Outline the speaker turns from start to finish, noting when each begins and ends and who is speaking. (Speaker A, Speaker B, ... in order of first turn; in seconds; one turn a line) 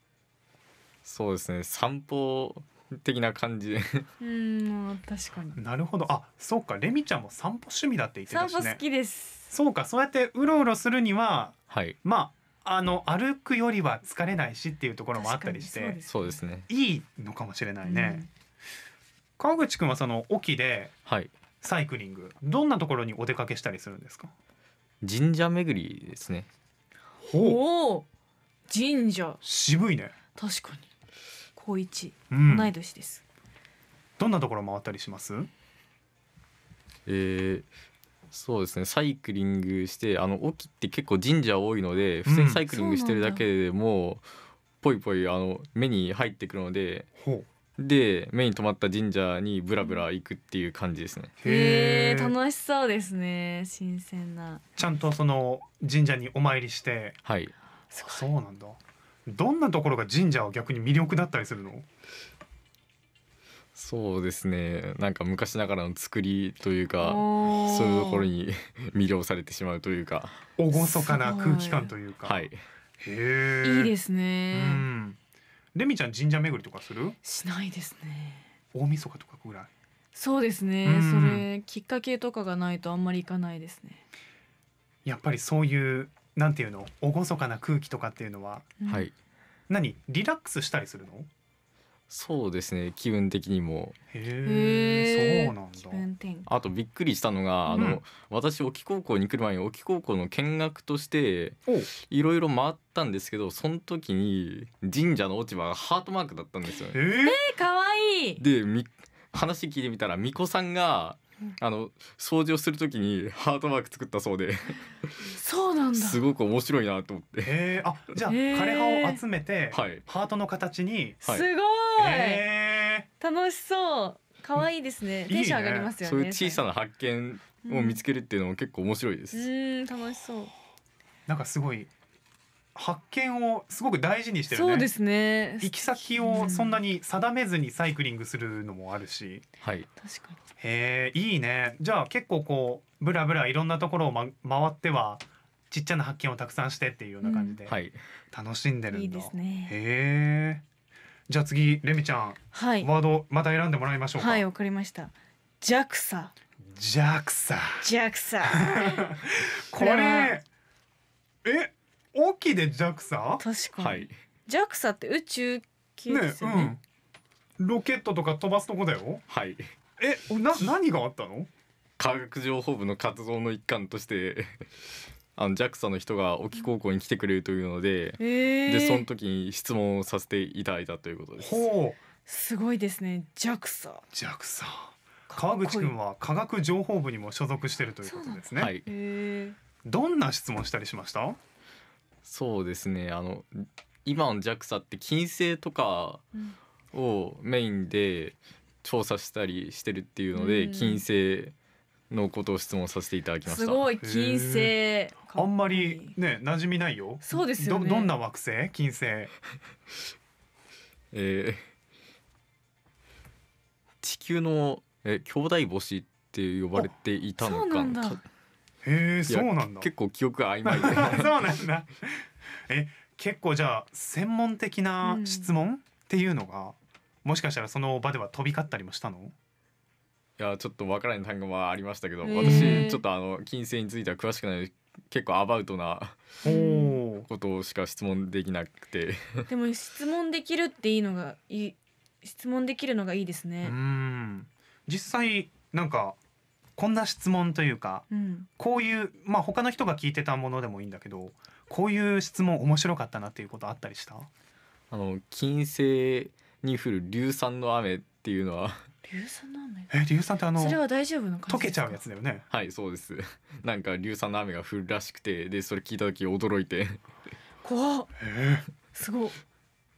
Speaker A: 1.1-4.1
Speaker B: 4.2-5.6
Speaker C: 5.5-8.8
Speaker B: 8.3-9.5
Speaker C: 9.5-16.0
Speaker A: 11.7-11.9
Speaker B: 15.1-16.4
Speaker A: 16.1-16.7
Speaker C: 16.7-18.2
Speaker B: 17.8-18.3
Speaker C: 19.4-20.9
Speaker A: 21.1-21.3
Speaker C: 21.6-24.3
Speaker A: 25.0-26.5
Speaker C: 27.2-27.6
Speaker B: 27.4-28.1
Speaker B: 28.7-29.4
Speaker C: 29.4-30.1
Speaker B: 30.3-30.9
Speaker B: 31.6-33.2
Speaker C: 32.3-32.7
Speaker C: 34.2-35.5
Speaker A: 37.1-37.6
Speaker A: 38.3-44.2
Speaker C: 42.2-42.6
Speaker B: 42.7-43.4
Speaker A: 44.8-47.1
Speaker C: 47.2-47.5
Speaker A: 47.8-51.3
Speaker C: 51.4-52.3
Speaker B: 51.4-54.6
Speaker C: 54.8-57.2
Speaker A: 57.2-57.5
Speaker B: 57.9-58.2
Speaker C: 58.0-61.8
Speaker A: 63.8-70.4
Speaker B: 67.0-68.3
Speaker C: 70.6-72.4
Speaker B: 70.7-71.9
Speaker A: 72.2-72.6
Speaker C: 73.0-73.9
Speaker B: 73.6-74.8
Speaker C: 74.5-75.2
Speaker C: 75.7-77.2
Speaker B: 77.2-78.4
Speaker C: 78.7-79.7
Speaker B: 80.1-84.0
Speaker C: 80.8-81.4
Speaker C: 85.0-88.7
Speaker B: 88.8-89.1
Speaker A: 88.9-89.1
Speaker C: 89.7-91.3
Speaker A: 92.1-94.0
Speaker C: 94.1-96.0
Speaker B: 94.4-96.5
Speaker A: 96.5-107.0
Speaker B: 97.7-97.9
Speaker C: 97.8-98.0
Speaker C: 106.9-107.4
Speaker B: 107.2-108.4
Speaker A: 108.4-115.0
Speaker B: 115.3-116.2
Speaker A: 115.9-117.6
Speaker C: 117.4-121.2
Speaker B: 118.3-119.2
Speaker A: 119.7-120.0
Speaker A: 121.2-121.5
Speaker B: 121.2-122.5
Speaker C: 122.0-123.1
Speaker B: 123.2-126.6
Speaker C: 125.3-125.9
Speaker A: 126.0-129.4
Speaker B: 127.7-128.0
Speaker B: 129.3-130.5
Speaker C: 131.3-131.9
Speaker C: 132.7-134.9
Speaker B: 134.5-136.8
Speaker C: 135.6-139.4
Speaker A: 139.6-139.9
Speaker B: 140.0-140.4
Speaker C: 140.6-147.8
Speaker B: 147.2-147.6
Speaker A: 147.7-148.0
Speaker C: 148.3-150.6
Speaker B: 148.9-149.7
Speaker C: 151.3-154.4
Speaker B: 152.5-152.9
Speaker B: 154.2-156.3
Speaker C: 156.7-157.8
Speaker B: 157.8-159.0
Speaker C: 158.5-160.4
Speaker B: 159.8-160.4
Speaker C: 161.4-163.4
Speaker B: 163.4-166.7
Speaker A: 163.8-164.1
Speaker C: 166.1-166.8
Speaker C: 167.6-169.2
Speaker A: 169.3-169.6
Speaker C: 170.0-171.5
Speaker A: 172.0-174.6
Speaker A: 175.3-181.7
Speaker B: 178.2-179.1
Speaker C: 181.4-182.0
Speaker B: 182.3-184.0
Speaker C: 184.1-188.7
Speaker B: 185.3-185.9
Speaker B: 188.0-189.6
Speaker A: 188.6-188.9
Speaker C: 189.8-191.4
Speaker A: 192.2-196.2
Speaker A: 196.9-201.5
Speaker B: 200.3-201.0
Speaker A: 202.1-203.9
Speaker B: 203.4-206.1
Speaker C: 204.0-204.7
Speaker C: 205.3-209.3
Speaker B: 207.2-208.1
Speaker A: 211.1-211.6
Speaker A: 214.0-218.2
Speaker B: 217.4-218.2
Speaker C: 218.8-219.9
Speaker A: 219.3-221.5
Speaker C: 220.6-229.3
Speaker B: 225.0-225.5
Speaker A: 230.4-236.2
Speaker B: 232.2-233.0
Speaker C: 232.4-232.9
Speaker B: 236.4-237.0
Speaker C: 236.4-237.3
Speaker A: 237.2-239.4
Speaker B: 239.5-243.7
Speaker C: 243.6-246.2
Speaker C: 246.8-248.0
Speaker B: 248.1-248.5
Speaker C: 248.6-254.3
Speaker A: 254.9-258.8
Speaker B: 259.1-259.9
Speaker C: 259.9-260.8
Speaker B: 260.6-262.0
Speaker C: 261.5-262.4
Speaker A: 262.5-267.0
Speaker B: 267.6-268.1
Speaker C: 268.2-268.6
Speaker B: 268.9-269.4